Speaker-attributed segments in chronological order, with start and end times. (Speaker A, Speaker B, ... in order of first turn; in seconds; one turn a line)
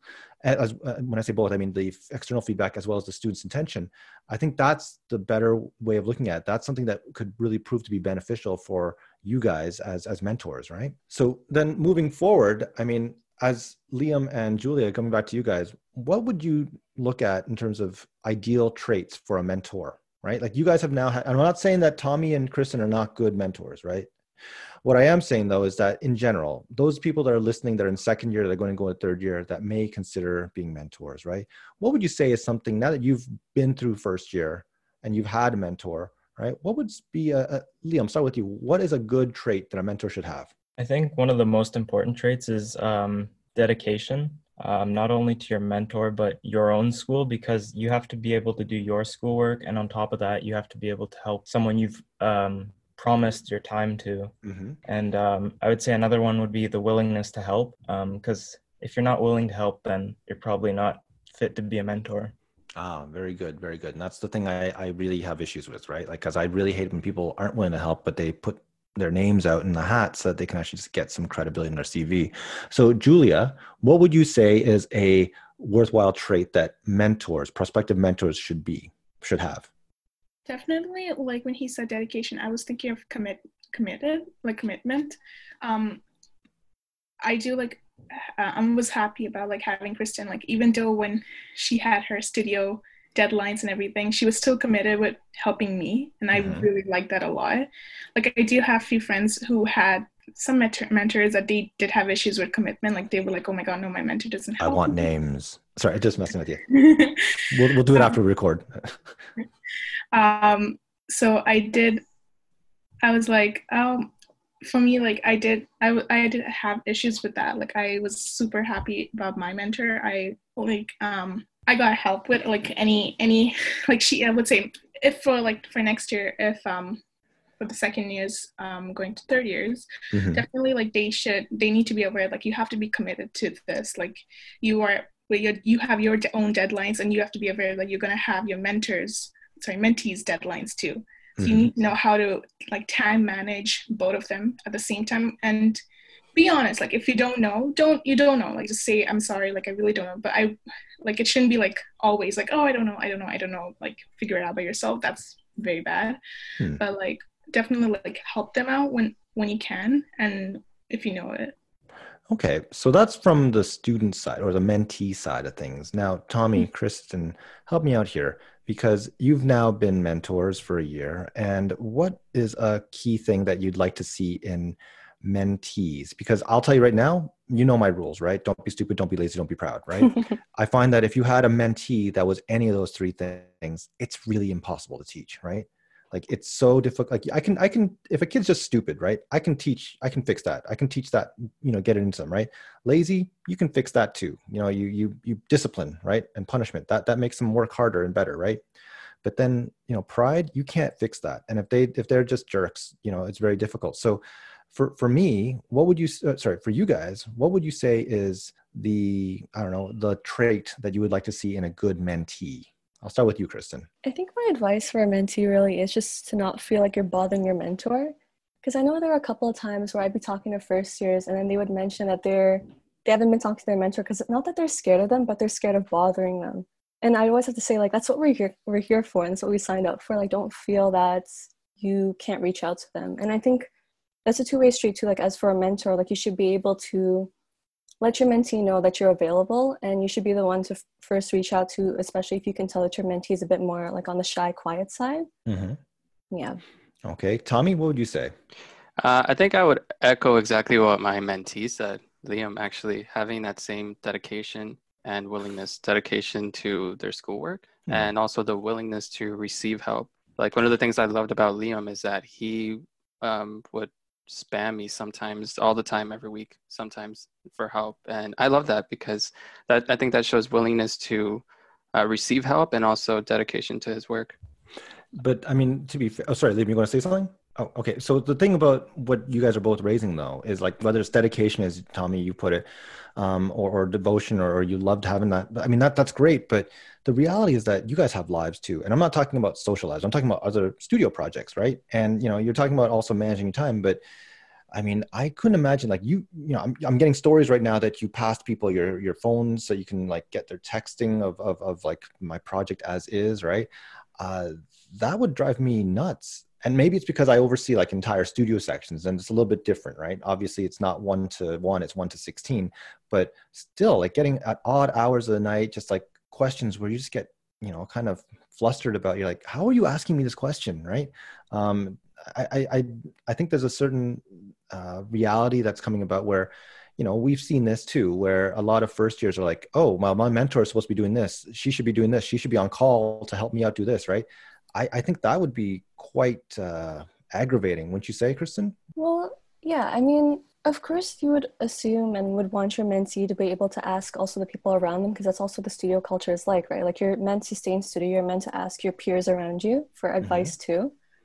Speaker A: 0.4-24.1
Speaker A: 24.8-40.5
Speaker B: 40.8-54.3
Speaker A: 54.4-54.8
Speaker B: 54.9-62.3
Speaker A: 62.8-79.7
Speaker C: 80.5-86.0
Speaker C: 87.2-105.0
Speaker A: 96.3-96.7
Speaker A: 104.6-106.8
Speaker C: 106.7-108.1
Speaker A: 107.5-109.1
Speaker C: 110.1-112.0
Speaker C: 113.0-114.1
Speaker C: 114.6-127.0
Speaker C: 127.6-145.8
Speaker A: 130.1-130.4
Speaker A: 141.4-141.7
Speaker C: 146.3-156.2
Speaker C: 156.8-161.5
Speaker A: 162.3-198.6
Speaker A: 199.2-213.9
Speaker D: 214.0-233.7
Speaker D: 234.2-237.3
Speaker D: 238.0-245.3
Speaker A: 245.4-245.8
Speaker D: 246.3-246.6
Speaker A: 247.0-248.3
Speaker E: 249.0-271.4
Speaker E: 271.9-274.4
Speaker A: 275.1-294.0
Speaker A: 294.7-338.8
Speaker D: 338.9-350.9
Speaker A: 350.2-350.5